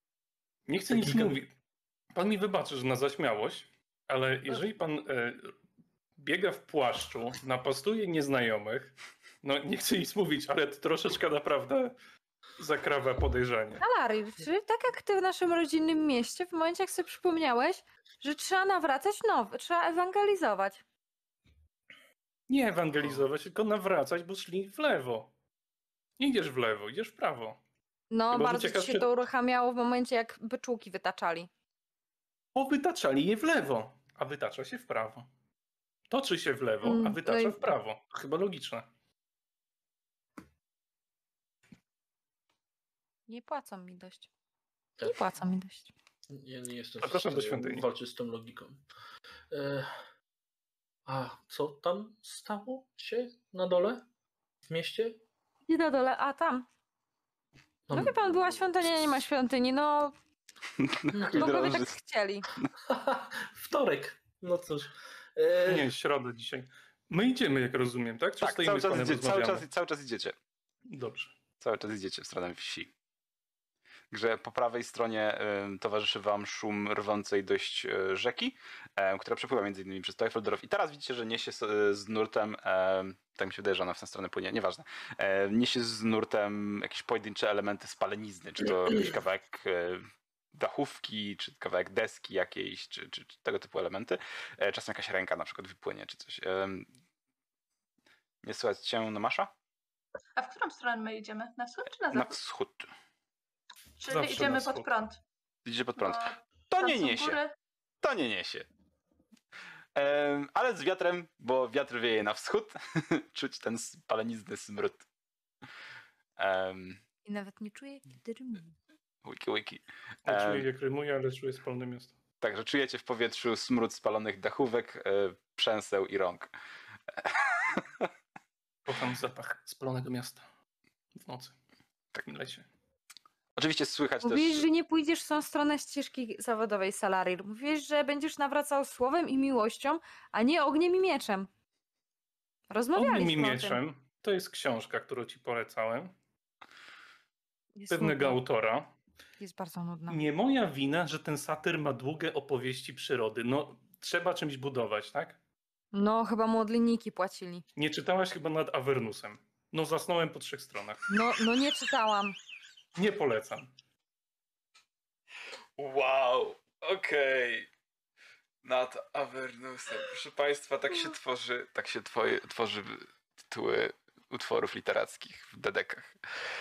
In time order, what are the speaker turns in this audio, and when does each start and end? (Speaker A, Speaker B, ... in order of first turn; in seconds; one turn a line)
Speaker A: 0.7-1.5
Speaker B: 0.9-1.4
Speaker A: 2.1-5.5
Speaker A: 6.2-11.9
Speaker A: 12.6-13.8
Speaker C: 13.8-20.8
Speaker A: 22.5-25.3
Speaker A: 26.2-27.6
Speaker C: 28.1-31.5
Speaker A: 28.3-29.1
Speaker A: 32.5-35.3
Speaker A: 36.1-38.9
Speaker C: 36.8-37.7
Speaker C: 43.3-44.3
Speaker C: 45.0-45.9
Speaker B: 46.3-48.8
Speaker A: 47.0-47.9
Speaker B: 49.5-50.0
Speaker B: 51.0-54.0
Speaker B: 54.7-55.2
Speaker C: 55.7-56.6
Speaker B: 57.9-58.5
Speaker C: 57.9-60.1
Speaker D: 60.8-61.9
Speaker B: 61.1-61.5
Speaker C: 61.3-62.5
Speaker B: 62.9-65.9
Speaker A: 65.6-69.7
Speaker D: 68.4-70.3
Speaker A: 70.9-71.3
Speaker D: 71.6-72.9
Speaker D: 74.1-96.9
Speaker D: 98.4-99.5
Speaker E: 100.4-102.4
Speaker D: 102.1-102.9
Speaker E: 104.0-105.2
Speaker A: 104.1-104.9
Speaker D: 105.6-107.4
Speaker E: 106.0-107.5
Speaker D: 108.0-108.7
Speaker D: 110.0-115.0
Speaker D: 116.4-117.0
Speaker C: 117.2-118.7
Speaker D: 119.2-120.7
Speaker A: 120.2-122.1
Speaker D: 122.4-126.5
Speaker D: 127.1-128.1
Speaker A: 128.8-130.4
Speaker A: 131.2-131.5
Speaker A: 132.2-132.7
Speaker D: 133.6-134.7
Speaker C: 134.2-141.5
Speaker C: 142.7-143.8
Speaker A: 142.9-146.1
Speaker C: 147.8-148.4
Speaker A: 147.9-148.9
Speaker C: 149.4-150.2
Speaker A: 150.1-155.4
Speaker C: 155.9-157.6
Speaker A: 157.8-161.0
Speaker C: 161.1-162.4
Speaker A: 162.9-163.7
Speaker D: 165.8-167.7
Speaker D: 168.6-176.2